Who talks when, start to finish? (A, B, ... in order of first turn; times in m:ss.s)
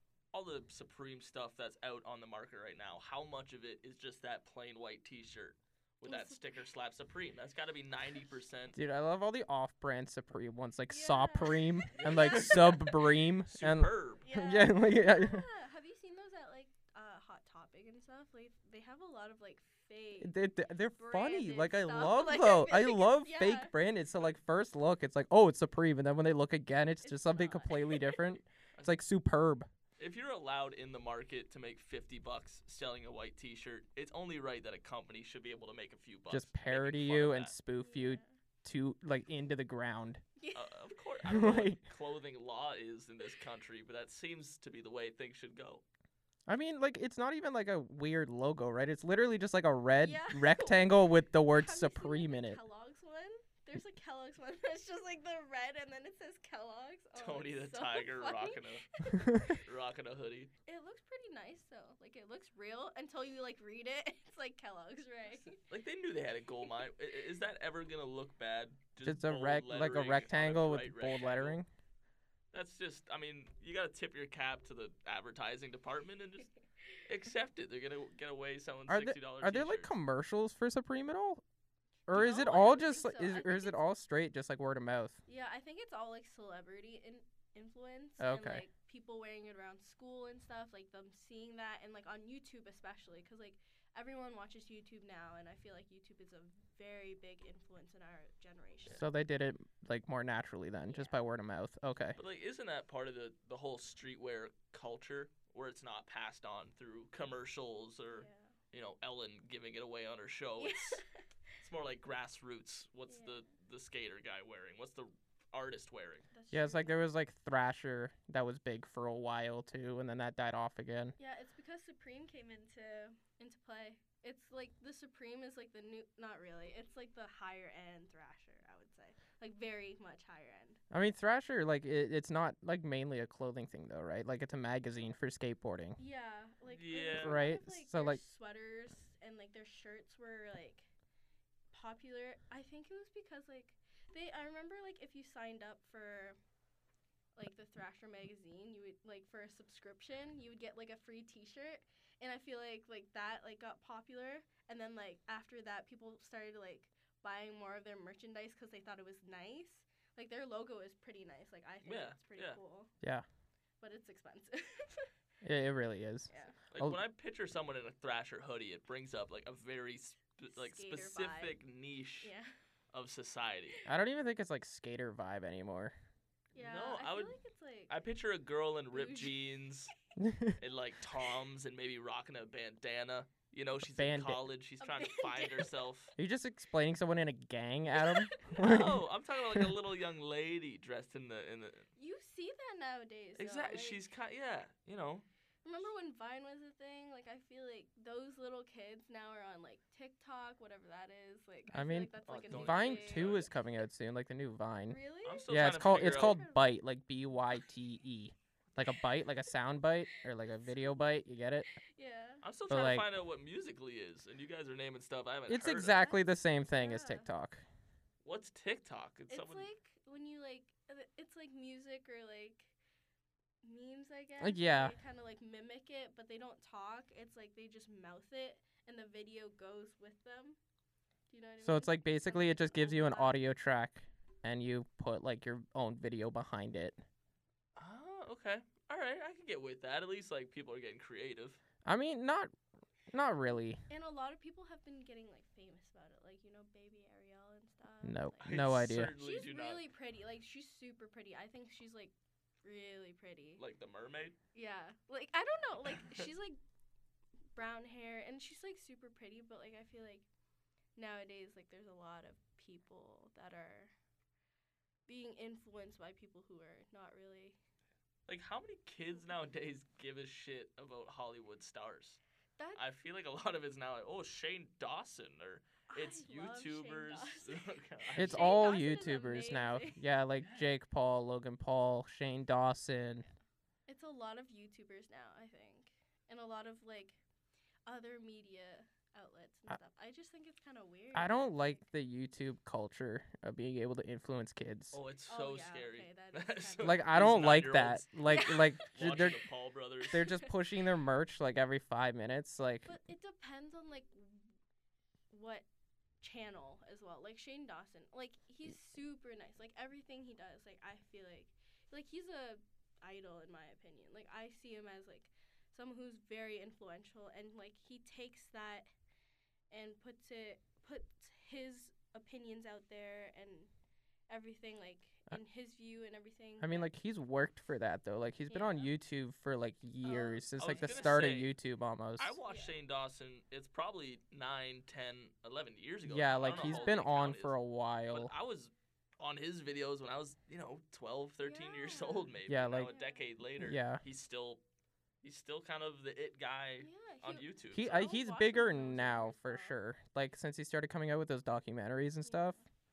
0:00.3-0:08.8 A
0:06.1-0:06.4 B
0:08.7-0:15.4 C
0:10.9-0:12.9 B
0:12.0-0:14.2 A
0:14.2-0:20.4 B
0:20.2-0:29.7 C
0:21.0-0:23.7 B
0:27.0-0:28.2 B
0:30.0-0:37.5 A
0:36.3-0:40.2 C
0:37.8-0:38.3 B
0:40.4-0:40.8 B
0:40.6-0:45.8 A
0:41.3-0:41.8 C
0:46.5-0:52.6 C
0:50.0-0:59.6 B
0:57.2-0:58.9 A
0:59.6-1:00.5 A
1:00.7-1:05.6 B
1:05.6-1:11.6 A
1:09.0-1:11.7 C
1:12.5-1:16.5 A
1:17.0-1:19.9 A
1:18.9-1:21.4 C
1:22.1-1:25.2 C
1:22.1-1:23.8 B
1:22.1-1:22.6 A
1:25.3-1:39.0 B
1:28.2-1:28.6 C
1:38.9-1:42.2 C
1:40.9-1:41.2 B
1:42.2-1:51.0 A
1:48.2-1:48.6 B
1:50.6-1:51.6 B
1:51.6-1:56.3 A
1:53.1-1:53.4 B
1:56.3-1:57.0 B
1:56.5-2:01.2 C
2:01.2-2:10.8 B
2:10.9-2:16.0 C
2:16.0-2:20.9 B
2:16.7-2:17.5 A
2:17.1-2:18.2 C
2:21.7-2:26.4 B
2:27.4-2:42.9 B
2:41.8-2:42.6 A
2:43.8-2:45.1 B
2:45.4-2:47.0 C
2:46.3-2:46.6 B
2:46.7-2:52.3 A
2:50.5-2:51.6 B
2:52.2-2:52.5 B
2:52.9-2:53.8 A
2:53.9-2:55.9 C
2:56.6-2:57.9 B
2:56.6-2:57.4 A
2:57.9-2:59.9 A
2:58.9-2:59.4 B
3:00.2-3:00.6 C
3:00.6-3:06.1 A
3:03.9-3:04.4 C
3:04.8-3:05.7 B
3:06.2-3:09.7 C
3:08.0-3:08.8 B
3:08.5-3:11.9 A
3:12.0-3:14.0 B
3:13.4-3:15.3 A
3:15.6-3:23.4 B
3:21.7-3:31.7 C
3:22.3-3:23.5 A
3:24.9-3:26.7 B
3:25.2-3:26.4 A
3:30.1-3:31.0 B
3:31.9-3:32.4 B
3:32.4-3:36.0 A
3:32.7-3:33.1 C
3:35.5-3:37.6 C
3:35.9-3:37.3 B
3:38.2-3:39.7 A
3:39.3-3:42.8 B
3:43.6-3:50.6 B
3:44.4-3:45.0 C
3:51.3-3:53.4 B
3:51.6-3:57.0 C
3:57.8-4:01.6 A
4:01.8-4:02.5 C
4:03.1-4:03.8 C
4:03.9-4:08.5 B
4:08.0-4:09.1 C
4:08.4-4:09.8 A
4:09.2-4:12.1 B
4:12.6-4:13.6 B
4:13.6-4:14.4 A
4:14.5-4:16.6 B
4:15.9-4:16.2 A
4:17.6-4:20.2 B
4:21.0-4:23.9 B
4:25.1-4:27.6 B
4:28.3-4:32.2 A
4:32.8-4:38.5 A
4:35.9-4:40.0 B
4:38.2-4:43.3 C
4:40.4-4:40.7 A
4:43.9-4:47.2 B
4:47.9-4:51.8 B
4:51.1-4:55.0 C
4:54.9-5:00.3 A
4:55.3-4:57.2 B
4:56.8-4:59.4 C
4:58.3-4:59.4 B
5:00.1-5:03.0 C
5:00.2-5:00.5 B
5:02.8-5:04.5 B
5:05.3-5:05.7 B
5:06.2-5:18.9 B
5:19.7-5:23.7 B
5:24.3-5:26.9 B
5:26.6-5:32.4 C
5:28.5-5:28.9 B
5:30.0-5:31.2 B
5:30.6-5:31.5 A
5:32.2-5:37.6 A
5:32.4-5:32.8 B
5:36.1-5:38.3 C
5:36.4-5:37.0 B
5:38.1-5:44.6 A
5:41.4-5:42.3 B
5:42.5-5:42.9 C
5:42.9-5:43.2 B
5:43.6-5:44.0 C
5:45.2-5:47.8 A
5:46.8-5:49.8 B
5:47.7-5:52.6 C
5:52.2-5:52.6 B